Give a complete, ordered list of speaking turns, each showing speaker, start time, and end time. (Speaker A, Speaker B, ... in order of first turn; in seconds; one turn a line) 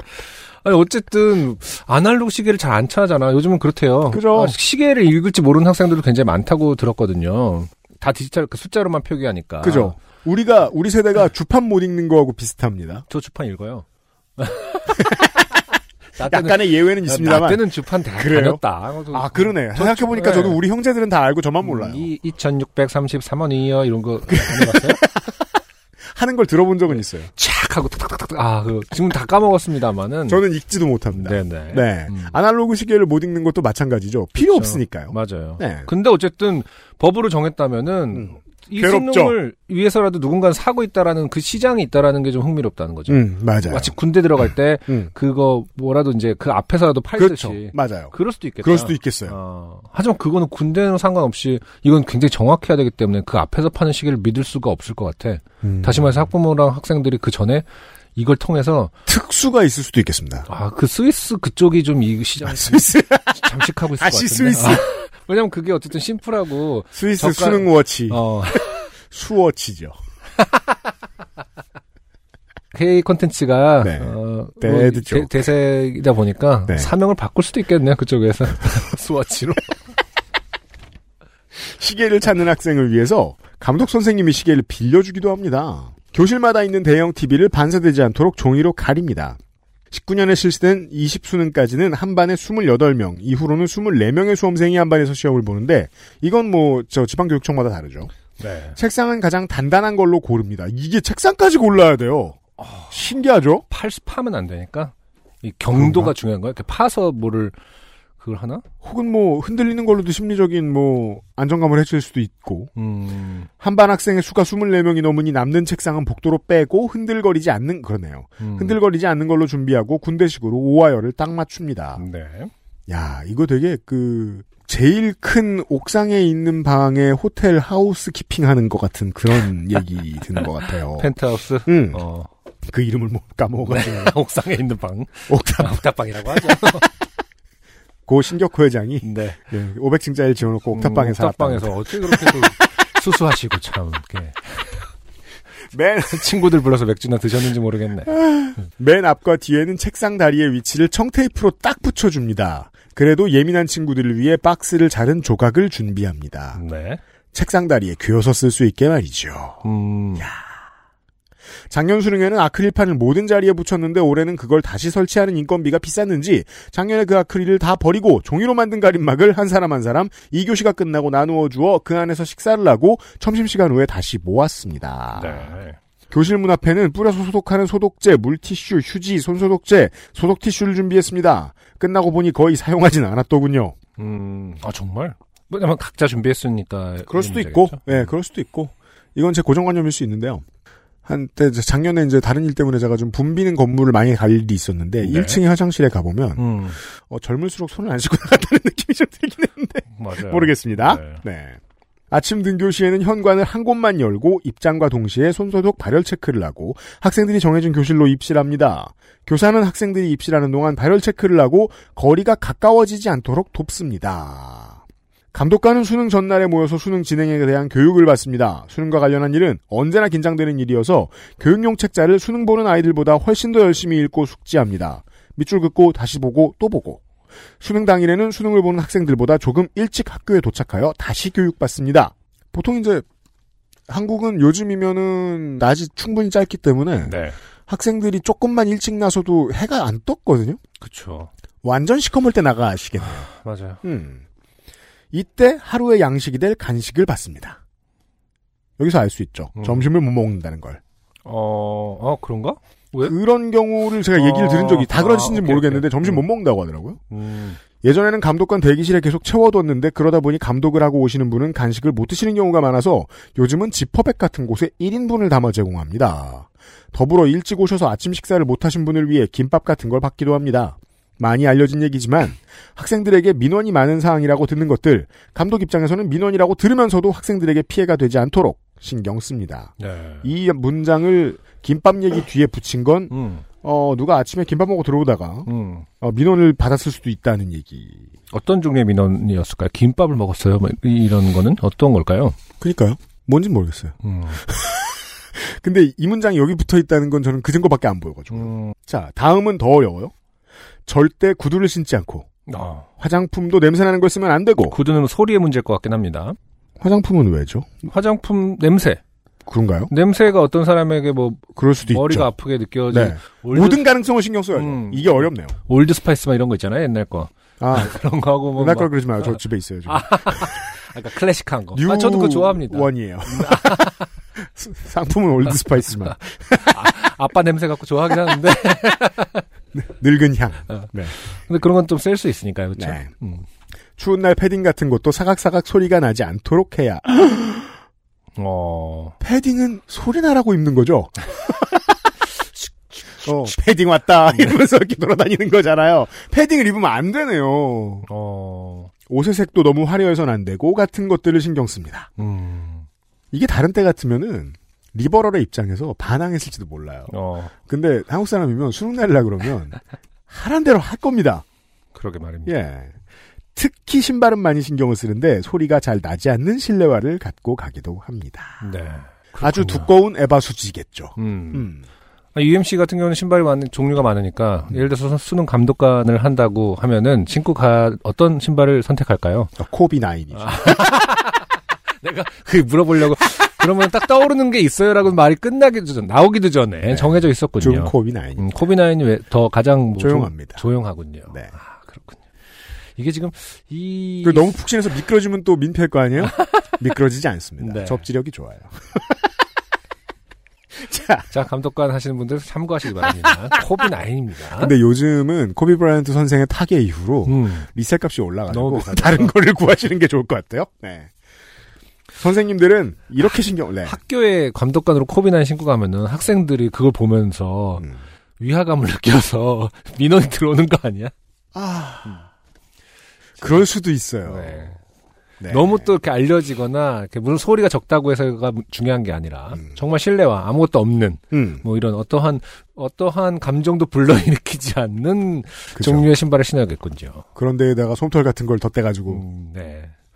Speaker A: 0.6-10.0
Speaker B: 4.1-4.6
Speaker B: 9.6-13.1
Speaker A: 13.1-13.8
Speaker A: 14.4-15.1
Speaker A: 16.2-20.6
Speaker B: 16.2-22.1
Speaker A: 21.6-25.0
Speaker B: 24.3-25.3
Speaker B: 26.1-27.3
Speaker A: 27.4-30.4
Speaker B: 30.3-35.9
Speaker A: 31.1-32.4
Speaker A: 34.4-58.9
Speaker B: 38.1-39.4
Speaker B: 43.1-44.0
Speaker B: 47.1-49.4
Speaker B: 55.6-56.3
Speaker B: 59.1-60.5
Speaker A: 60.5-68.9
Speaker B: 62.4-64.9
Speaker B: 67.0-68.2
Speaker B: 69.1-70.0
Speaker A: 72.7-79.7
Speaker B: 73.8-75.5
Speaker B: 81.6-89.4
Speaker B: 89.9-98.1
Speaker A: 98.4-98.8
Speaker B: 98.8-103.7
Speaker A: 102.6-102.9
Speaker A: 103.7-107.6
Speaker B: 105.7-106.1
Speaker A: 108.2-108.6
Speaker B: 108.8-112.7
Speaker A: 112.8-113.5
Speaker B: 113.6-122.0
Speaker A: 118.4-118.8
Speaker A: 122.0-122.5
Speaker B: 122.9-131.1
Speaker A: 131.0-132.3
Speaker B: 131.7-132.0
Speaker B: 132.7-134.2
Speaker A: 133.7-136.9
Speaker B: 135.3-136.6
Speaker B: 138.1-142.5
Speaker A: 139.0-139.4
Speaker A: 140.7-144.8
Speaker B: 145.7-146.3
Speaker A: 146.1-148.2
Speaker B: 148.1-156.6
Speaker A: 156.6-157.0
Speaker B: 157.3-159.7
Speaker A: 159.6-160.3
Speaker B: 160.2-160.6
Speaker B: 161.7-175.5
Speaker A: 175.1-175.8
Speaker B: 176.1-183.8
Speaker A: 184.0-188.1
Speaker B: 187.1-190.4
Speaker B: 191.1-201.6
Speaker A: 195.0-195.4
Speaker A: 196.4-196.8
Speaker A: 200.0-201.2
Speaker B: 202.1-214.8
Speaker B: 215.3-227.0
Speaker B: 227.6-233.1
Speaker B: 233.9-237.2
Speaker A: 237.1-237.4
Speaker B: 237.7-240.6
Speaker A: 240.8-241.3
Speaker B: 241.6-243.3
Speaker A: 243.2-243.8
Speaker B: 243.8-244.2
Speaker B: 245.1-247.6
Speaker B: 248.8-250.8
Speaker A: 249.6-249.9
Speaker A: 251.3-253.2
Speaker B: 253.0-257.0
Speaker A: 254.1-256.3
Speaker A: 257.1-257.6
Speaker B: 257.8-285.5
Speaker A: 279.8-280.3
Speaker A: 283.1-283.4
Speaker A: 285.5-285.9
Speaker B: 286.0-288.1
Speaker A: 288.3-292.4
Speaker B: 292.6-300.1
Speaker A: 294.0-294.4
Speaker A: 298.3-298.7
Speaker B: 300.9-302.3
Speaker A: 302.5-302.9
Speaker B: 303.0-304.8
Speaker A: 304.7-306.4
Speaker B: 306.8-307.8
Speaker A: 307.9-309.0
Speaker B: 309.5-309.9
Speaker A: 309.9-313.9
Speaker B: 311.6-312.3
Speaker B: 312.9-315.5
Speaker A: 314.6-319.4
Speaker B: 317.6-318.0
Speaker B: 318.6-320.6
Speaker A: 319.9-324.1
Speaker B: 321.7-326.9
Speaker A: 326.6-329.4
Speaker B: 329.7-331.1
Speaker A: 330.7-333.5
Speaker B: 332.8-333.1
Speaker B: 334.0-337.7
Speaker A: 338.4-339.2
Speaker B: 339.2-341.8
Speaker A: 342.6-343.3
Speaker B: 343.2-348.1
Speaker A: 348.1-348.9
Speaker B: 349.1-352.1
Speaker A: 352.2-352.9
Speaker B: 353.3-357.1
Speaker A: 357.1-357.5
Speaker B: 357.6-359.8
Speaker B: 360.3-361.4
Speaker A: 361.9-362.6
Speaker B: 362.5-362.9
Speaker B: 363.6-368.7
Speaker A: 368.6-369.9
Speaker B: 369.4-371.8
Speaker A: 371.2-371.7
Speaker A: 372.4-379.5
Speaker B: 379.6-380.9
Speaker A: 380.3-381.4
Speaker A: 382.0-392.2
Speaker B: 386.9-388.5
Speaker B: 390.0-390.6
Speaker A: 393.0-394.6
Speaker B: 394.2-399.2
Speaker A: 396.4-396.6
Speaker A: 397.6-398.1
Speaker B: 400.8-401.3
Speaker A: 401.3-404.7
Speaker B: 404.6-411.1
Speaker A: 407.3-407.7
Speaker A: 408.5-409.3
Speaker B: 412.2-414.0
Speaker A: 413.9-417.9
Speaker A: 418.4-421.1
Speaker B: 421.5-422.2
Speaker B: 423.4-424.7
Speaker A: 424.3-424.8
Speaker B: 425.4-425.9
Speaker A: 425.5-437.2
Speaker B: 431.3-431.6
Speaker B: 435.8-436.1
Speaker B: 437.4-439.2
Speaker A: 439.1-439.9